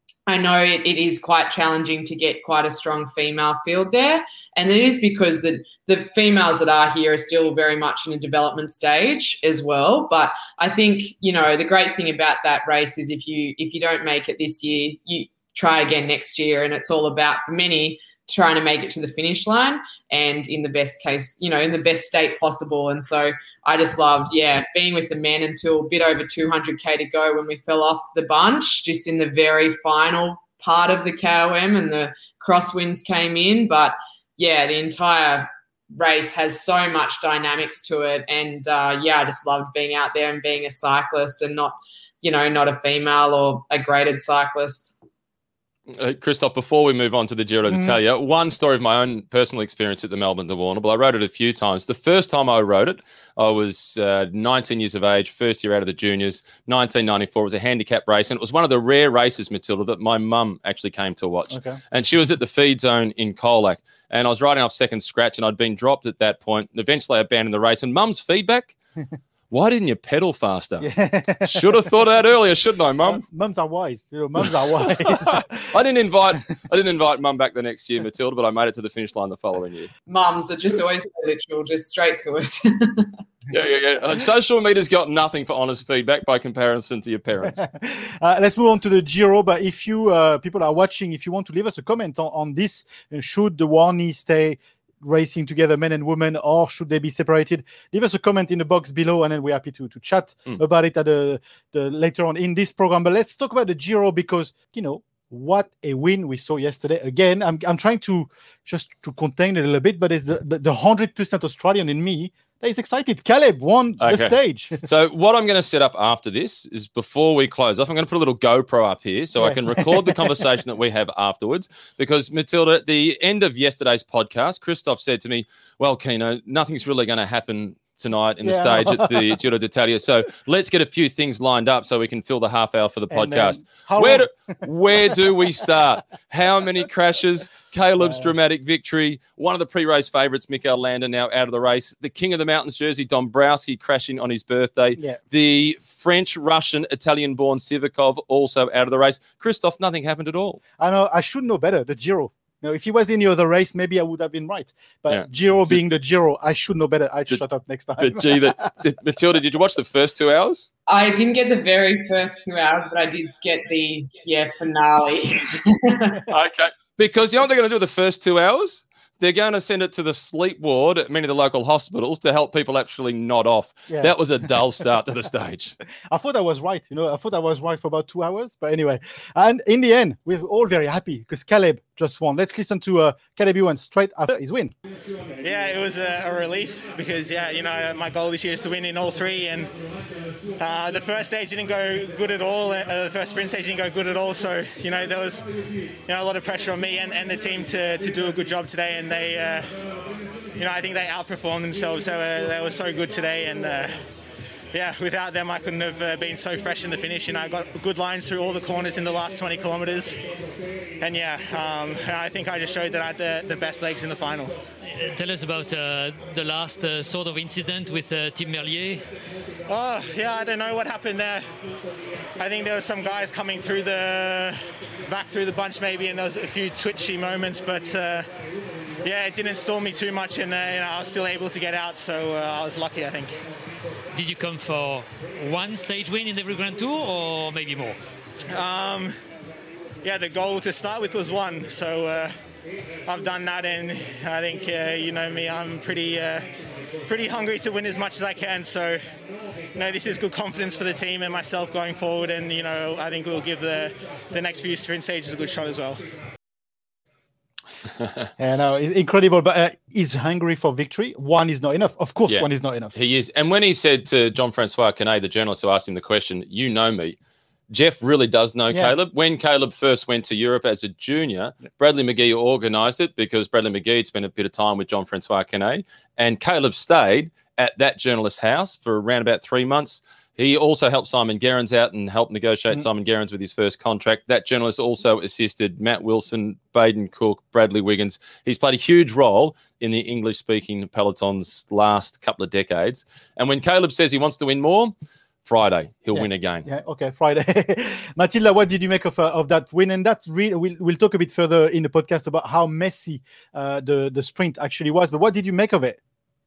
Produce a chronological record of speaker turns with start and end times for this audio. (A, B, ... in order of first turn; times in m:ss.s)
0:00.3-0:45.0 A
0:45.9-1:08.8 B
0:47.7-0:47.9 C
1:01.5-1:01.8 C
1:09.5-1:10.9 B
1:10.8-1:11.8 C
1:11.4-1:13.2 B
1:13.0-1:15.6 C
1:15.0-1:19.9 B
1:20.1-1:23.1 A
1:23.5-1:27.6 B
1:27.5-1:54.8 C
1:54.0-2:30.6 B
1:59.4-2:00.3 C
2:08.4-2:09.2 C
2:13.1-2:14.5 C
2:18.0-2:18.3 C
2:30.8-2:38.7 C
2:35.1-2:35.8 B
2:38.0-2:40.7 B
2:40.9-2:46.2 A
2:46.3-2:55.8 B
2:53.9-2:54.1 C
2:56.1-3:04.8 C
3:05.4-3:09.7 D
3:10.6-3:15.5 D
3:16.1-3:19.8 D
3:20.6-3:24.0 D
3:24.7-3:30.2 D
3:31.0-3:34.5 D
3:34.8-3:39.0 E
3:39.7-3:41.5 D
3:42.4-3:48.3 D
3:49.0-3:53.3 D
3:54.1-3:58.0 E
3:58.5-3:59.2 D
4:00.0-4:02.4 D
4:03.1-4:06.5 D
4:07.1-4:09.1 D
4:09.7-4:16.0 D
4:18.4-4:22.9 C
4:22.3-4:27.2 B
4:27.7-4:54.9 B
4:55.4-4:56.7 B
4:56.1-5:06.0 C